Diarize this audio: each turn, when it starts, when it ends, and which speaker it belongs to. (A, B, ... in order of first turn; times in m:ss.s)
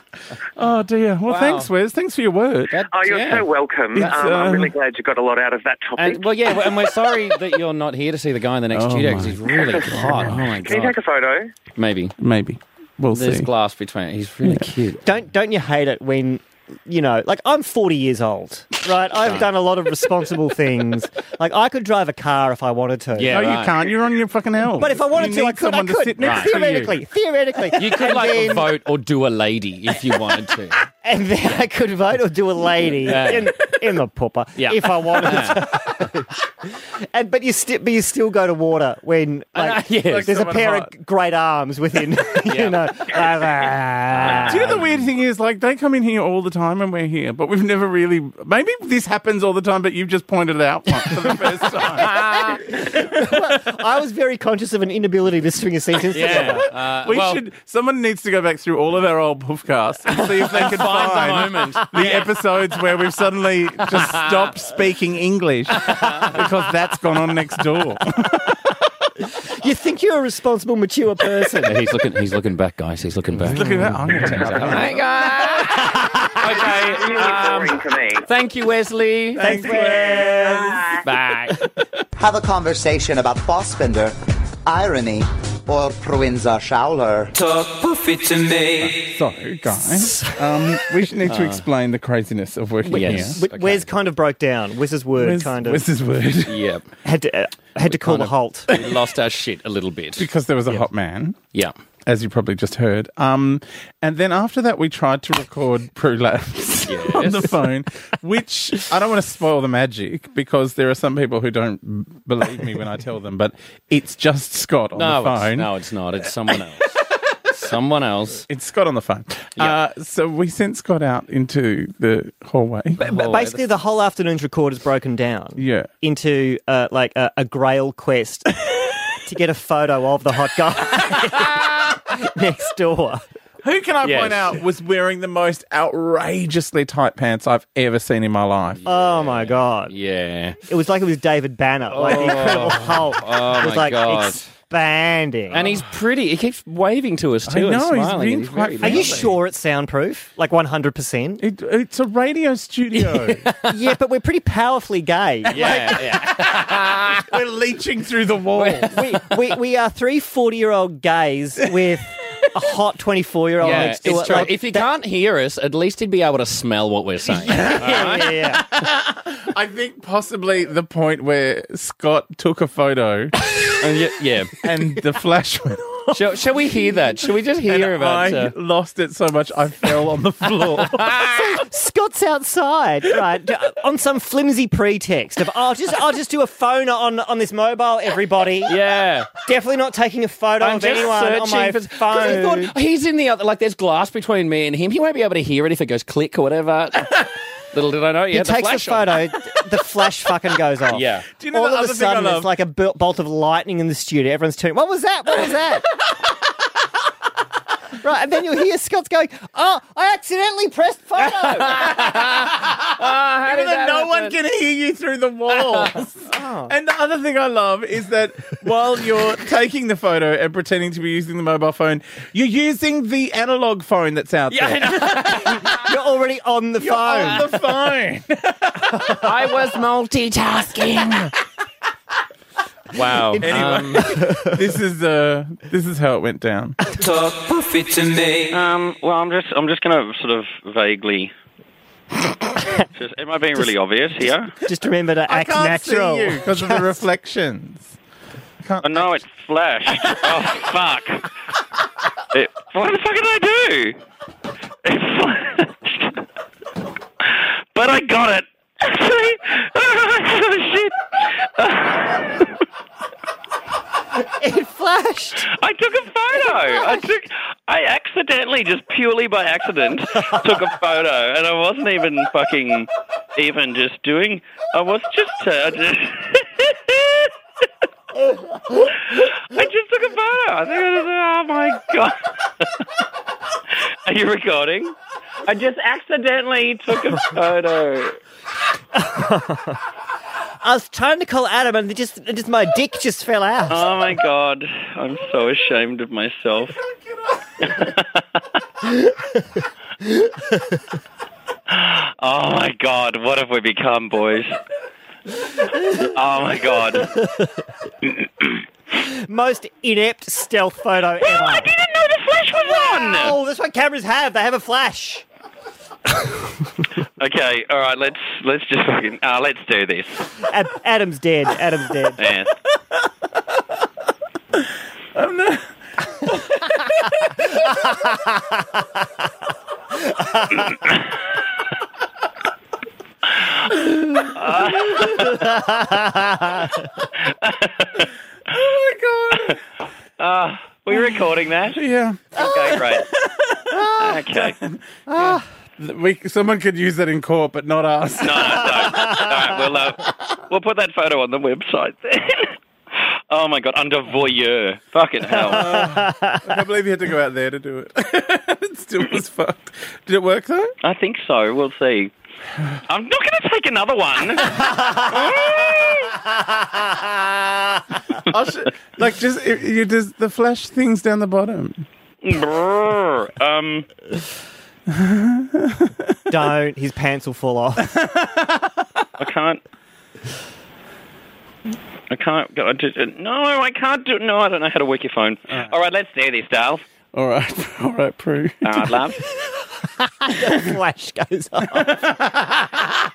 0:00.5-0:02.8 A
0:01.3-0:01.7 B
0:02.7-0:03.5 B
0:02.9-0:07.2 C
0:03.9-0:04.7 A
0:06.0-0:11.0 B
0:08.7-0:10.5 A
0:09.5-0:11.5 C
0:11.8-0:12.2 B
0:12.2-0:13.5 A
0:13.1-0:15.0 B
0:15.0-0:23.4 D
0:19.2-0:19.5 B
0:23.2-0:23.9 B
0:23.3-0:27.0 A
0:24.8-0:28.8 D
0:26.2-0:26.7 B
0:27.8-0:30.8 B
0:30.8-0:44.9 D
0:33.0-0:33.6 B
0:34.6-0:35.7 B
0:39.6-0:40.6 B
0:40.0-0:40.9 A
0:42.5-0:43.2 B
0:44.1-0:44.9 B
0:44.3-0:52.2 A
0:52.0-0:52.8 B
0:52.0-0:56.7 D
0:56.1-0:57.4 B
0:56.2-1:08.8 A
1:00.1-1:02.3 B
1:03.9-1:04.4 B
1:05.8-1:06.4 B
1:09.4-1:11.8 D
1:11.6-1:19.9 B
1:13.5-1:15.0 A
1:13.5-1:14.2 D
1:15.8-1:16.2 D
1:16.5-1:18.3 C
1:19.4-1:21.0 A
1:19.4-1:21.0 D
1:21.0-1:21.7 B
1:22.1-1:27.5 E
1:27.8-1:28.2 F
1:28.6-1:33.4 A
1:30.0-1:30.3 D
1:31.2-1:31.6 B
1:32.9-1:33.9 B
1:32.9-1:35.8 D
1:35.2-1:36.6 A
1:36.5-1:36.9 B
1:37.0-1:38.7 D
1:37.8-1:40.3 B
1:40.2-1:41.4 A
1:42.1-1:55.7 A
1:46.9-1:47.7 B
1:55.0-1:56.8 B
1:57.6-1:58.5 B
1:58.5-2:03.0 A
2:03.0-2:13.2 D
2:03.0-2:03.7 B
2:05.6-2:05.9 A
2:13.6-2:18.8 A
2:14.0-2:14.6 B
2:18.8-2:20.6 B
2:18.8-2:20.0 D
2:20.7-2:25.7 D
2:21.9-2:24.5 B
2:22.0-2:23.0 A
2:25.5-2:29.3 B
2:25.6-2:25.8 A
2:27.5-2:29.4 A
2:28.8-2:31.4 D
2:31.4-2:33.4 A
2:33.0-2:33.8 B
2:33.7-2:36.1 D
2:35.5-2:37.4 B
2:35.5-2:38.9 A
2:38.5-2:39.3 B
2:38.9-2:44.9 D
2:43.6-2:48.3 B
2:43.6-2:44.5 A
2:47.4-2:53.3 A
2:47.6-2:48.6 D
2:53.8-2:54.6 B
2:54.6-2:56.2 A
2:56.1-2:58.6 B
2:57.6-3:01.4 A
3:00.9-3:01.3 B
3:01.4-3:08.8 D
3:08.6-3:09.3 B
3:09.4-3:12.8 D
3:10.6-3:19.3 B
3:18.3-3:25.9 D
3:20.9-3:21.3 B
3:21.4-3:22.5 A
3:28.0-3:32.2 D
3:31.3-3:34.4 B
3:32.2-3:45.7 A
3:35.6-3:35.9 B
3:36.3-3:36.7 D
3:44.5-3:45.9 B
3:45.7-3:47.5 D
3:46.8-3:49.3 A
3:49.0-3:49.3 D
3:49.2-3:51.3 B
3:52.9-3:54.2 B
3:53.4-3:54.6 D
3:53.4-3:56.8 A
3:57.5-4:01.3 F
4:02.9-4:04.5 F
4:04.6-4:07.0 D
4:05.3-4:08.0 A
4:08.6-4:09.2 A
4:08.8-4:11.3 F
4:12.3-4:14.0 F
4:14.8-4:16.2 F
4:17.2-4:22.6 F
4:24.2-4:25.5 D
4:25.4-4:37.3 F
4:38.7-4:42.9 F
4:43.7-4:48.2 F
4:48.9-4:49.8 D
4:50.6-4:53.9 D
4:53.7-4:56.8 F
4:57.6-4:58.4 F
4:58.8-4:59.4 D
5:00.0-5:00.8 D
5:01.7-5:04.6 F
5:05.9-5:07.1 F
5:07.2-5:07.5 D
5:08.2-5:08.6 F
5:08.9-5:11.7 D
5:11.2-5:13.4 F
5:12.6-5:15.2 D
5:17.2-5:20.4 F
5:20.5-5:22.2 D
5:22.2-5:22.5 F
5:25.1-5:25.7 A
5:33.7-5:35.3 A
5:34.3-5:35.4 F
5:35.3-5:36.9 D
5:37.2-5:38.1 F
5:38.5-5:39.6 A
5:39.3-5:39.6 F
5:40.2-5:41.8 F
5:41.7-5:49.3 A
5:42.4-5:43.0 F
5:44.0-5:44.6 F
5:45.1-5:45.4 D
5:48.2-5:55.8 F
5:49.0-5:49.2 D
5:55.5-6:00.8 A
5:55.5-5:56.4 D
6:00.8-6:02.1 F
6:02.9-6:06.2 F
6:08.2-6:11.9 A
6:12.2-6:13.9 F
6:14.9-6:16.2 A
6:16.3-6:17.9 D
6:17.8-6:18.8 A
6:19.2-6:19.6 F
6:22.1-6:26.8 F
6:27.1-6:29.0 A
6:28.6-6:29.2 F
6:30.2-6:32.0 D
6:31.7-6:32.7 A